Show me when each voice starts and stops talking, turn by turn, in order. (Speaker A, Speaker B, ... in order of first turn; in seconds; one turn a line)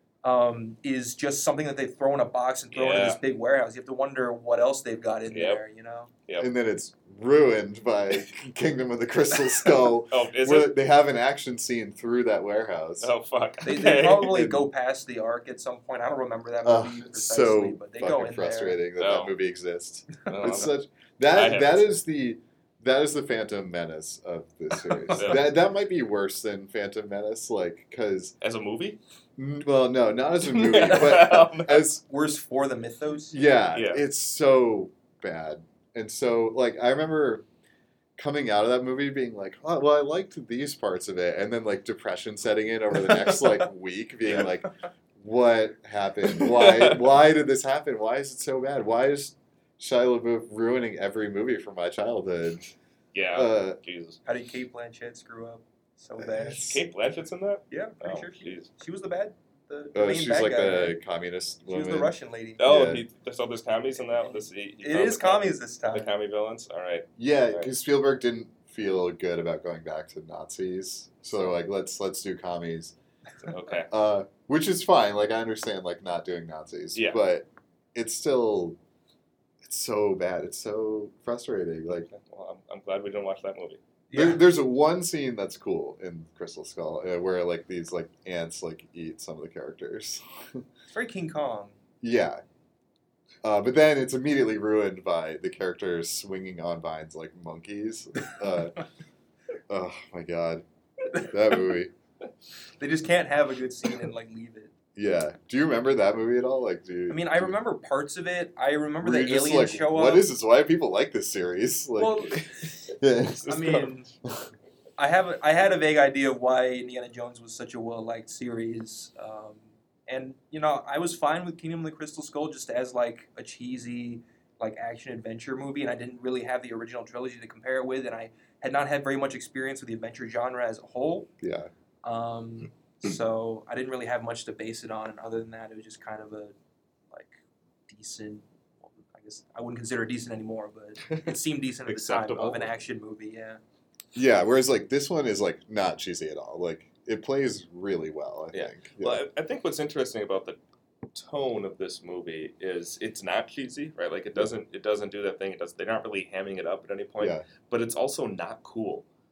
Speaker A: 0.2-6.1
Speaker B: 2.7-3.2
Speaker B: 5.3-5.6
Speaker C: 6.4-13.1
Speaker B: 10.1-10.7
Speaker B: 13.0-14.4
Speaker A: 13.6-18.8
Speaker C: 14.3-14.7
Speaker C: 16.6-28.3
Speaker B: 19.0-19.3
Speaker B: 20.3-20.7
Speaker B: 21.3-21.9
Speaker A: 25.1-25.3
Speaker B: 25.1-25.5
Speaker B: 28.4-29.0
Speaker C: 29.4-32.0
Speaker B: 30.4-31.9
Speaker A: 30.9-31.3
Speaker A: 32.1-33.4
Speaker C: 33.3-37.4
Speaker B: 33.7-34.0
Speaker C: 38.2-52.7
Speaker B: 46.4-47.1
Speaker B: 53.1-54.2
Speaker C: 53.3-53.8
Speaker A: 54.2-56.7
Speaker C: 56.2-56.9
Speaker B: 56.5-58.7
Speaker A: 57.7-61.0
Speaker C: 59.9-63.0
Speaker A: 61.7-62.6
Speaker B: 62.6-67.7
Speaker A: 64.0-66.1
Speaker C: 67.2-72.9
Speaker B: 73.4-73.9
Speaker C: 73.9-78.8
Speaker B: 76.9-77.2
Speaker C: 79.6-82.1
Speaker B: 82.0-83.8
Speaker A: 84.1-84.4
Speaker C: 84.1-90.6
Speaker A: 90.9-91.7
Speaker C: 92.0-92.4
Speaker C: 93.4-98.8
Speaker C: 99.7-100.6
Speaker A: 101.1-101.6
Speaker C: 101.2-101.9
Speaker A: 102.8-104.7
Speaker C: 104.9-107.5
Speaker A: 107.1-110.3
Speaker C: 109.0-112.3
Speaker A: 112.0-112.8
Speaker C: 113.0-113.5
Speaker B: 113.4-113.9
Speaker A: 113.5-114.1
Speaker A: 115.0-131.3
Speaker C: 131.4-131.7
Speaker A: 132.0-136.5
Speaker A: 137.1-143.6
Speaker B: 141.1-142.7
Speaker C: 144.1-149.2
Speaker B: 148.5-150.6
Speaker B: 151.1-159.0
Speaker C: 157.2-157.4